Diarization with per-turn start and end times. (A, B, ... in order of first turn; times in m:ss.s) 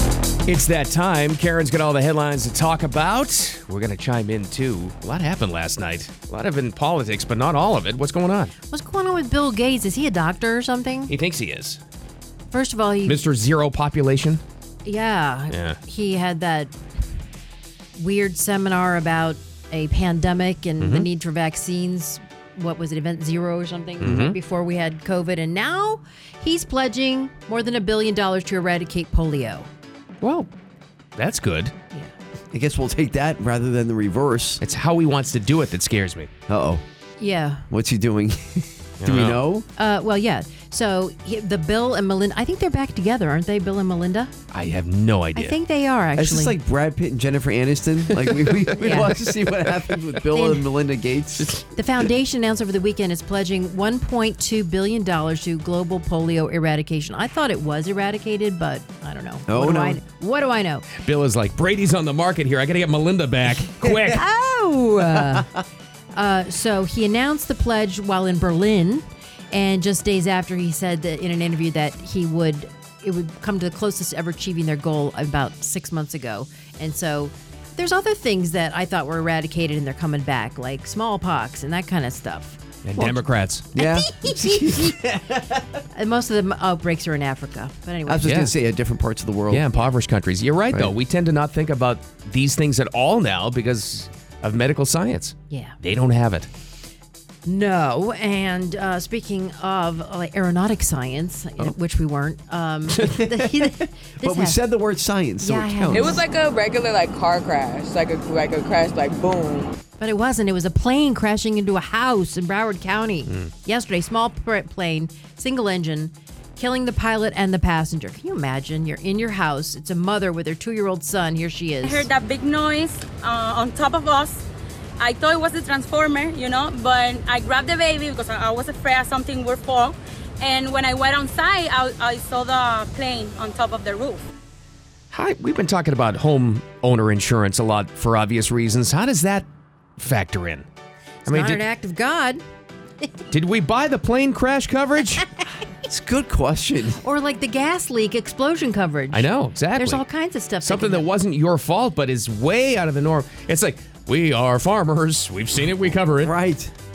0:00.5-0:08.5 A
0:08.7-0:11.1 B
0:11.1-0:11.8 A
0:12.5-0:13.2 B
0:13.1-0:14.4 A
0:14.8-0:16.7 B
0:15.5-0:15.8 A
0:18.0-0:29.7 B
0:20.8-0:21.1 A
0:24.0-0:24.4 A
0:30.2-0:30.5 A
0:31.2-0:31.7 A
0:32.5-0:34.6 C
0:34.6-0:36.3 A
0:36.5-0:36.8 C
0:37.2-0:37.7 B
0:37.7-0:39.7 C
0:39.0-0:39.4 A
0:39.8-0:44.3 B
0:44.5-0:45.6 A
0:45.4-0:46.6 B
0:46.2-0:51.6 C
0:48.8-0:49.2 B
0:50.3-0:50.7 B
0:51.7-1:00.9 B
0:59.5-1:00.0 C
1:01.0-1:04.2 A
1:04.1-1:05.5 B
1:06.2-1:22.6 B
1:22.8-1:23.7 A
1:23.8-1:25.7 C
1:23.8-1:24.9 B
1:25.9-1:28.4 B
1:28.1-1:29.7 C
1:28.2-1:28.5 A
1:29.5-1:36.5 A
1:35.5-1:35.8 B
1:37.4-1:44.6 B
1:43.0-1:46.1 C
1:45.4-1:46.2 B
1:45.9-1:49.7 D
1:50.0-2:02.1 B
2:01.8-2:04.4 E
2:05.0-2:14.2 E
2:15.1-2:19.5 A
2:20.0-2:20.7 A
2:21.3-2:21.6 A
2:21.3-2:22.4 B
2:23.3-2:25.3 A
2:25.9-2:27.0 C
2:27.0-2:31.0 B
2:29.1-2:30.0 A
2:30.6-2:36.4 A
2:36.2-2:36.7 C